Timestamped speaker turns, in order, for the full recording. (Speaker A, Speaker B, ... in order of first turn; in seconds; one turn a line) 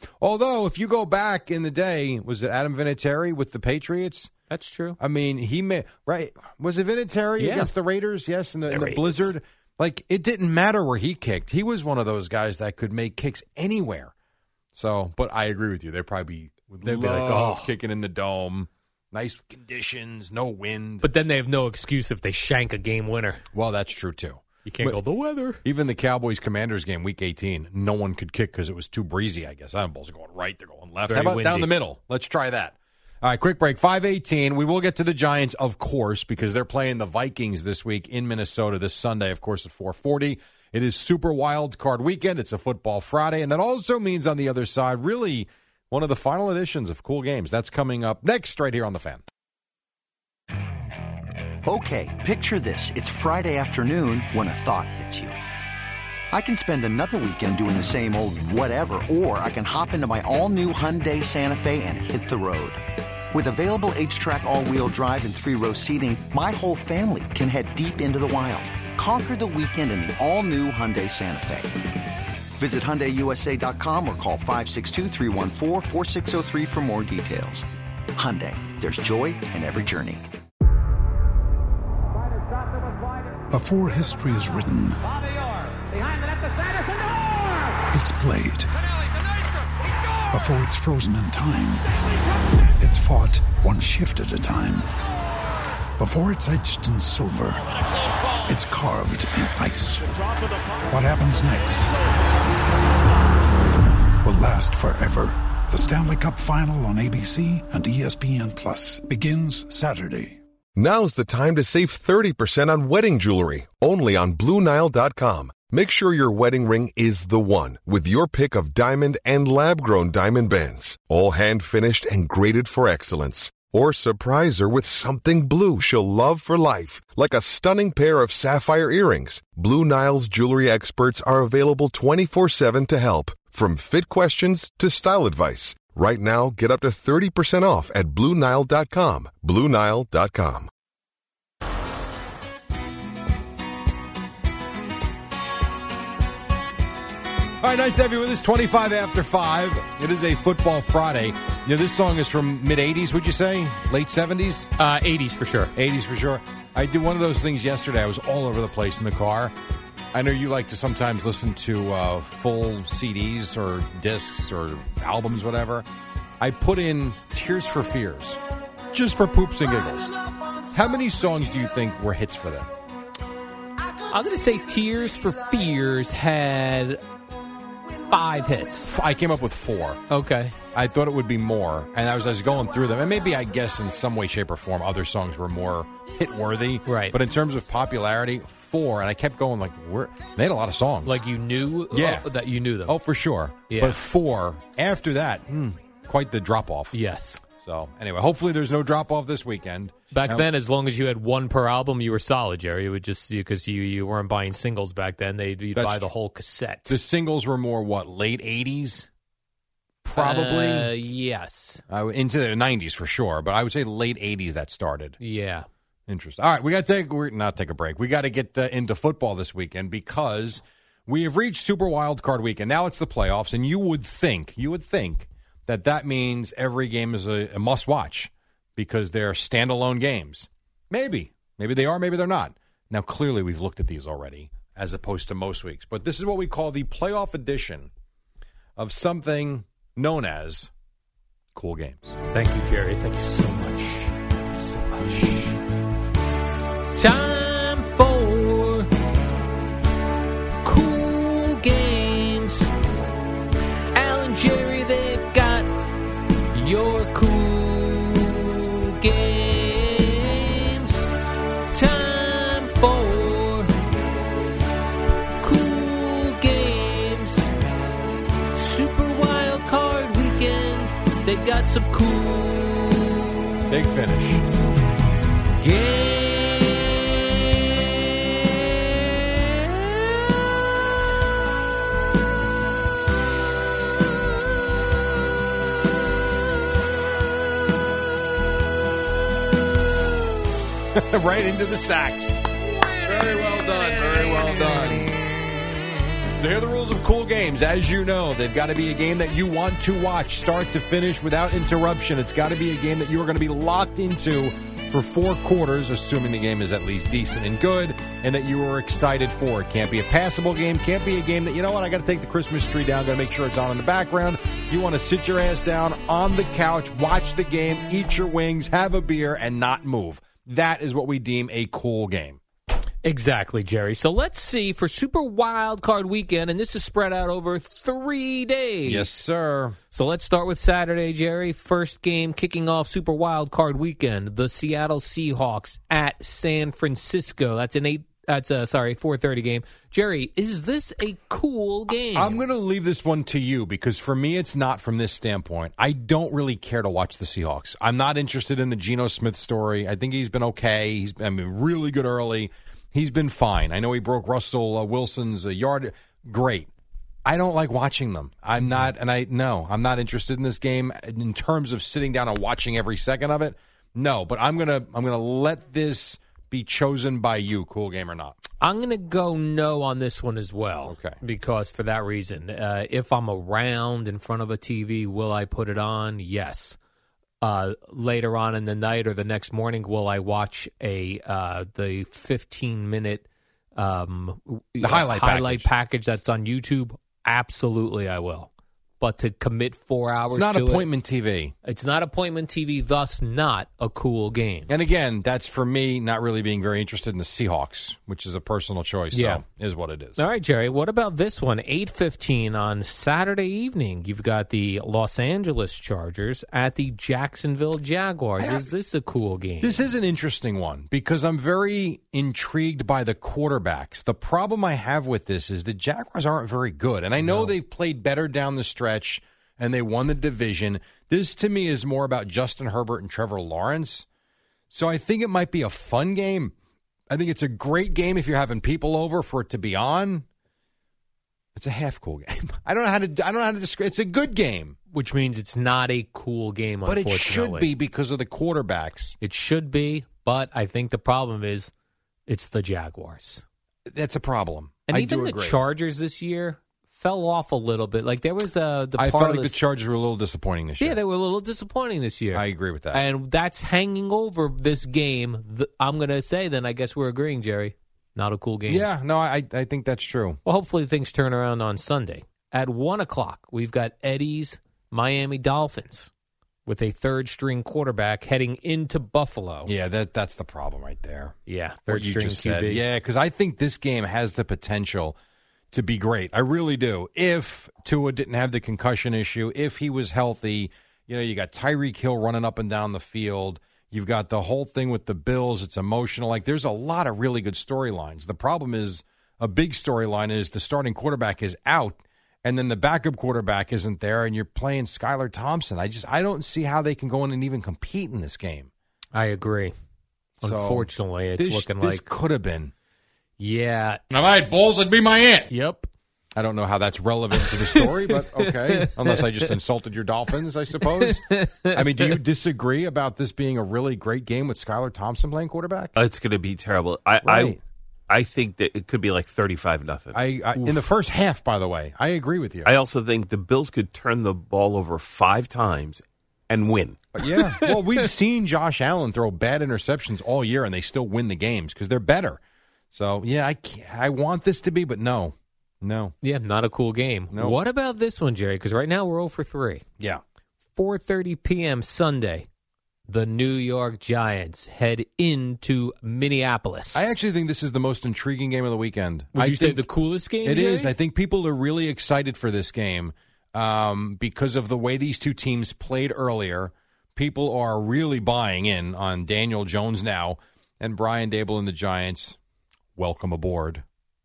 Speaker A: 0.2-4.3
Speaker B: 4.5-5.0
Speaker A: 5.0-14.1
Speaker B: 7.4-7.7
Speaker B: 8.7-9.3
Speaker A: 14.7-21.1
Speaker B: 16.8-17.7
Speaker B: 21.0-23.4
Speaker A: 23.5-25.0
Speaker B: 24.6-25.6
Speaker A: 25.6-49.2
Speaker B: 31.1-31.7
Speaker C: 51.6-55.4
Speaker C: 56.3-62.8
Speaker C: 63.3-71.8
Speaker C: 72.6-80.2
Speaker D: 83.5-85.0
Speaker D: 87.9-88.7
Speaker D: 90.3-91.8
Speaker D: 92.8-95.0
Speaker D: 96.0-97.7
Speaker D: 98.4-100.2
Speaker D: 100.9-101.9
Speaker D: 104.2-110.4
Speaker E: 110.8-140.7
Speaker A: 147.6-154.7
Speaker B: 154.8-155.7
Speaker A: 155.7-159.5
Speaker A: 160.1-165.9
Speaker A: 166.4-168.4
Speaker A: 168.9-170.1
Speaker A: 170.7-172.7
Speaker B: 174.1-177.0
Speaker B: 178.1-178.9
Speaker A: 178.9-180.0
Speaker B: 180.1-180.5
Speaker A: 180.7-191.2
Speaker B: 186.8-187.2
Speaker B: 191.1-192.9
Speaker A: 191.9-192.3
Speaker A: 192.8-196.9
Speaker B: 193.7-194.0
Speaker B: 196.9-197.4
Speaker A: 197.5-200.4
Speaker B: 200.1-206.9
Speaker A: 205.8-206.1
Speaker A: 206.9-209.1
Speaker A: 210.0-210.9
Speaker B: 210.1-211.8
Speaker A: 211.9-215.2
Speaker B: 215.2-215.7
Speaker A: 216.1-237.9
Speaker A: 238.8-240.7
Speaker A: 241.5-242.2
Speaker B: 242.3-245.6
Speaker B: 246.9-248.9
Speaker B: 250.6-252.7
Speaker B: 253.9-255.7
Speaker B: 256.5-261.1
Speaker B: 261.7-263.7
Speaker B: 265.4-267.5
Speaker B: 268.5-273.5
Speaker A: 273.7-274.4
Speaker B: 275.6-280.1
Speaker A: 290.9-292.4
Speaker A: 293.1-295.1
Speaker A: 296.4-322.4
Speaker B: 323.0-329.1
Speaker A: 328.9-329.8
Speaker B: 329.9-342.4
Speaker A: 342.1-356.7
Speaker A: 357.2-368.4
Speaker B: 368.6-376.8
Speaker A: 370.9-371.2
Speaker B: 377.4-383.2
Speaker B: 383.8-390.9
Speaker A: 384.8-385.7
Speaker A: 390.3-391.5
Speaker B: 391.6-394.7
Speaker A: 394.7-400.2
Speaker B: 399.1-399.4
Speaker B: 400.2-409.8
Speaker A: 408.4-408.7
Speaker A: 409.6-424.1
Speaker B: 417.2-417.5
Speaker A: 424.7-426.5
Speaker A: 427.1-430.2
Speaker A: 431.6-434.8
Speaker B: 434.9-437.7
Speaker A: 436.9-439.1
Speaker B: 439.2-441.7
Speaker B: 442.3-443.4
Speaker A: 443.9-445.6
Speaker B: 444.9-449.6
Speaker A: 449.0-451.0
Speaker B: 450.8-458.9
Speaker A: 452.3-453.0
Speaker A: 458.7-460.4
Speaker B: 460.4-466.1
Speaker B: 466.6-469.7
Speaker A: 469.6-471.4
Speaker B: 471.5-472.8
Speaker A: 471.9-475.1
Speaker A: 475.7-498.7
Speaker B: 499.1-499.7
Speaker A: 500.4-502.7
Speaker B: 500.4-502.1
Speaker B: 503.4-504.0
Speaker A: 504.1-505.5
Speaker B: 505.5-505.9
Speaker A: 506.4-515.9
Speaker B: 507.4-509.5
Speaker B: 511.0-512.1
Speaker F: 515.9-517.6
Speaker A: 517.2-517.6
Speaker F: 518.1-520.2
Speaker A: 520.1-522.7
Speaker F: 522.6-527.0
Speaker A: 527.1-532.4
Speaker B: 527.2-528.0
Speaker A: 532.9-536.1
Speaker B: 536.2-539.8
Speaker A: 537.3-537.6
Speaker B: 540.8-542.5
Speaker B: 543.1-547.0
Speaker A: 546.9-549.8
Speaker B: 549.3-550.9
Speaker A: 550.4-562.4
Speaker A: 563.0-563.8